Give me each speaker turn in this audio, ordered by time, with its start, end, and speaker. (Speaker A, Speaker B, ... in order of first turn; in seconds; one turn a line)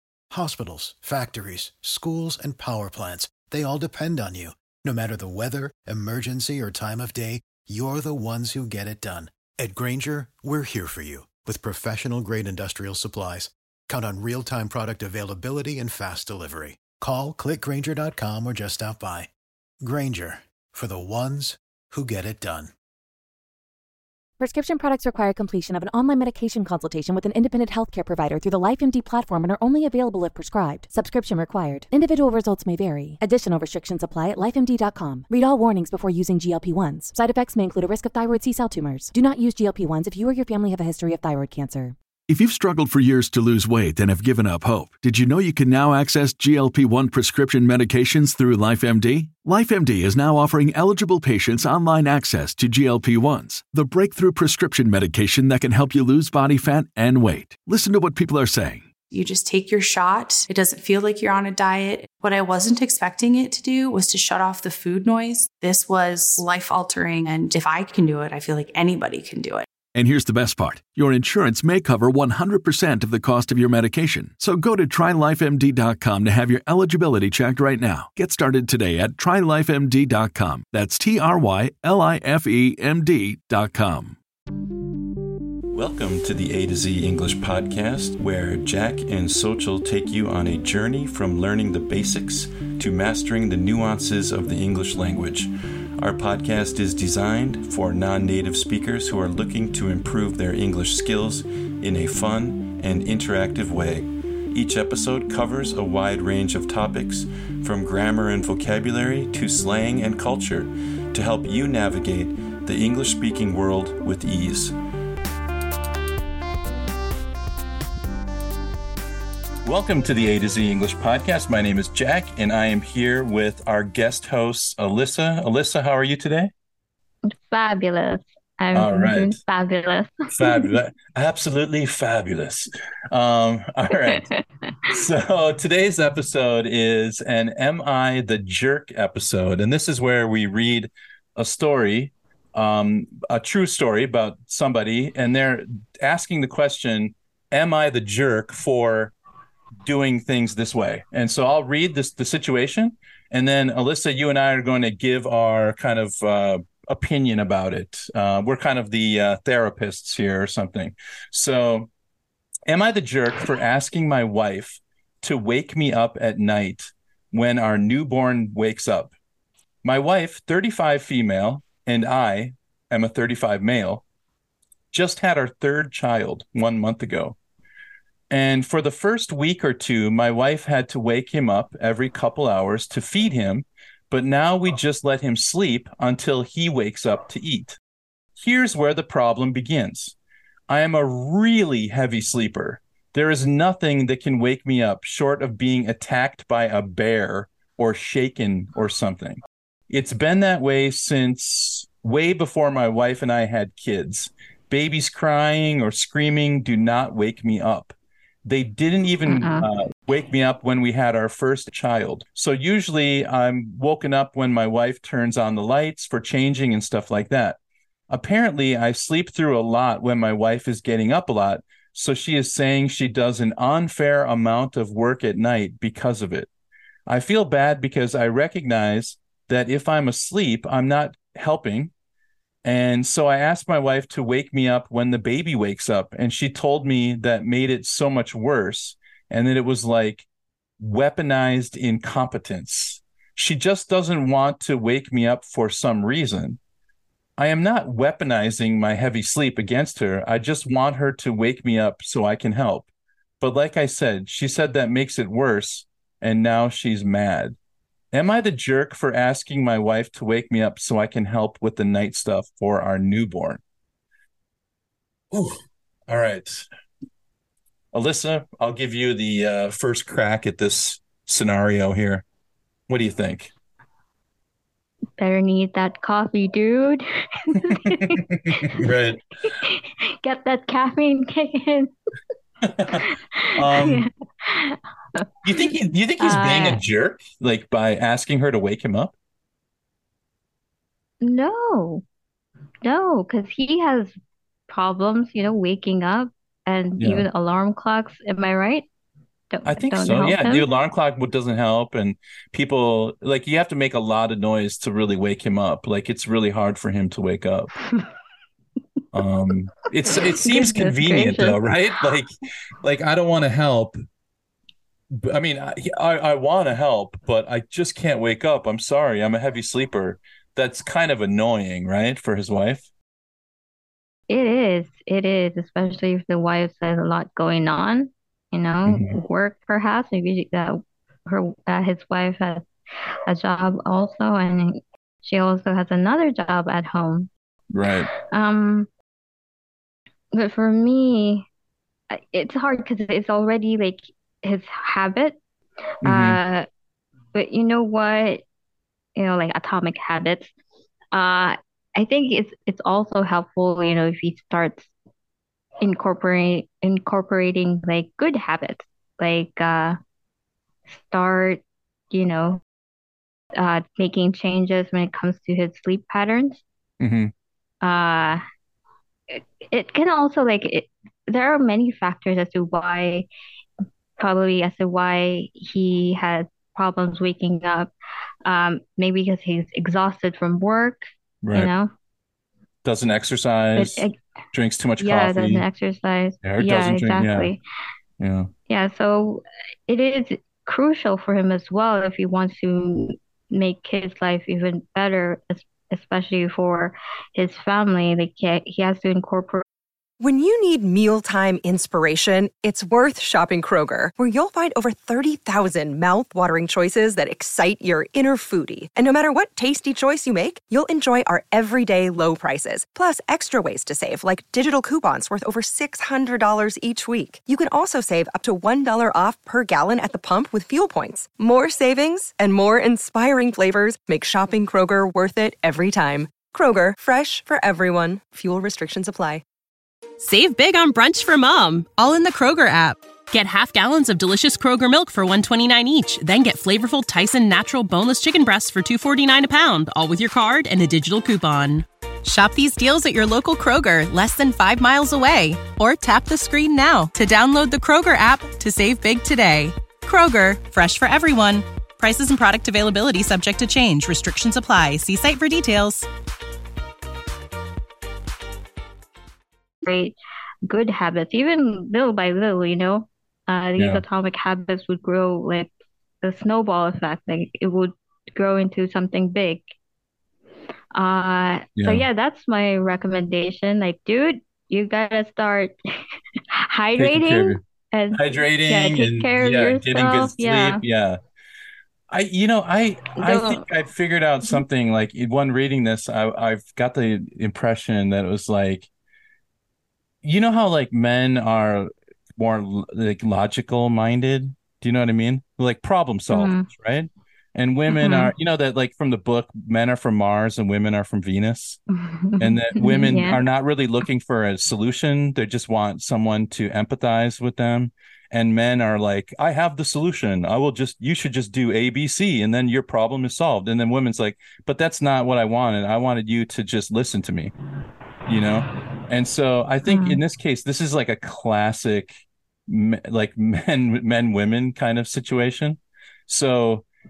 Speaker A: 0.3-19.3
Speaker A: 19.8-22.7
Speaker B: 24.4-42.0
Speaker C: 42.3-58.9
Speaker D: 59.1-69.7
Speaker C: 69.9-84.2
Speaker E: 85.7-114.8
Speaker E: 119.7-126.5
Speaker F: 127.3-130.7
Speaker E: 128.7-129.4
Speaker E: 130.3-134.3
Speaker E: 134.9-149.1
Speaker E: 149.8-161.9
Speaker E: 162.7-169.1
Speaker E: 169.8-174.0
Speaker E: 174.9-177.4
Speaker E: 178.3-187.8
Speaker E: 188.4-190.2
Speaker E: 190.7-217.6
Speaker F: 209.3-209.7
Speaker E: 218.1-226.5
Speaker E: 227.1-231.9
Speaker E: 232.6-240.3
Speaker E: 240.8-246.6
Speaker E: 247.4-252.9
Speaker E: 253.4-257.6
Speaker E: 258.1-263.6
Speaker E: 265.3-266.7
Speaker E: 267.9-272.2
Speaker E: 272.9-273.5
Speaker F: 275.2-278.2
Speaker E: 277.7-279.2
Speaker F: 279.6-281.9
Speaker F: 282.9-285.2
Speaker E: 283.6-284.1
Speaker E: 285.4-289.1
Speaker F: 286.2-286.8
Speaker F: 291.2-292.0
Speaker F: 292.8-294.1
Speaker F: 294.7-298.9
Speaker E: 297.0-297.3
Speaker F: 299.5-300.7
Speaker E: 299.6-307.7
Speaker E: 309.1-314.0
Speaker F: 310.4-311.6
Speaker E: 315.2-322.9
Speaker F: 324.3-332.6
Speaker E: 328.9-329.1
Speaker F: 333.3-337.3
Speaker E: 337.7-338.1
Speaker F: 338.3-338.9
Speaker F: 340.3-341.5
Speaker F: 342.1-345.4
Speaker F: 346.0-346.6
Speaker E: 346.1-346.4
Speaker F: 347.3-348.4
Speaker F: 349.2-350.5
Speaker F: 351.1-354.9
Speaker F: 355.8-360.0
Speaker F: 360.9-362.6
Speaker F: 363.6-366.6
Speaker E: 367.0-367.3
Speaker F: 367.8-368.4
Speaker F: 369.3-373.3
Speaker F: 374.2-377.9
Speaker F: 378.4-381.9
Speaker E: 381.4-381.7
Speaker E: 382.8-385.7
Speaker F: 383.8-384.2
Speaker F: 385.0-387.6
Speaker E: 386.4-387.5
Speaker E: 388.2-388.5
Speaker F: 388.7-399.6
Speaker G: 400.2-429.4
Speaker H: 430.2-456.1
Speaker F: 459.8-465.7
Speaker E: 463.8-464.0
Speaker F: 466.2-469.6
Speaker F: 470.9-475.7
Speaker E: 471.8-472.1
Speaker F: 476.7-480.8
Speaker E: 477.0-477.6
Speaker E: 478.1-481.2
Speaker E: 482.1-488.9
Speaker F: 483.1-483.6
Speaker E: 490.2-501.8
Speaker F: 496.3-496.7
Speaker F: 497.9-498.3
Speaker F: 501.9-503.4
Speaker E: 502.4-517.5
Speaker E: 518.3-522.2
Speaker F: 519.9-520.2
Speaker E: 522.7-526.9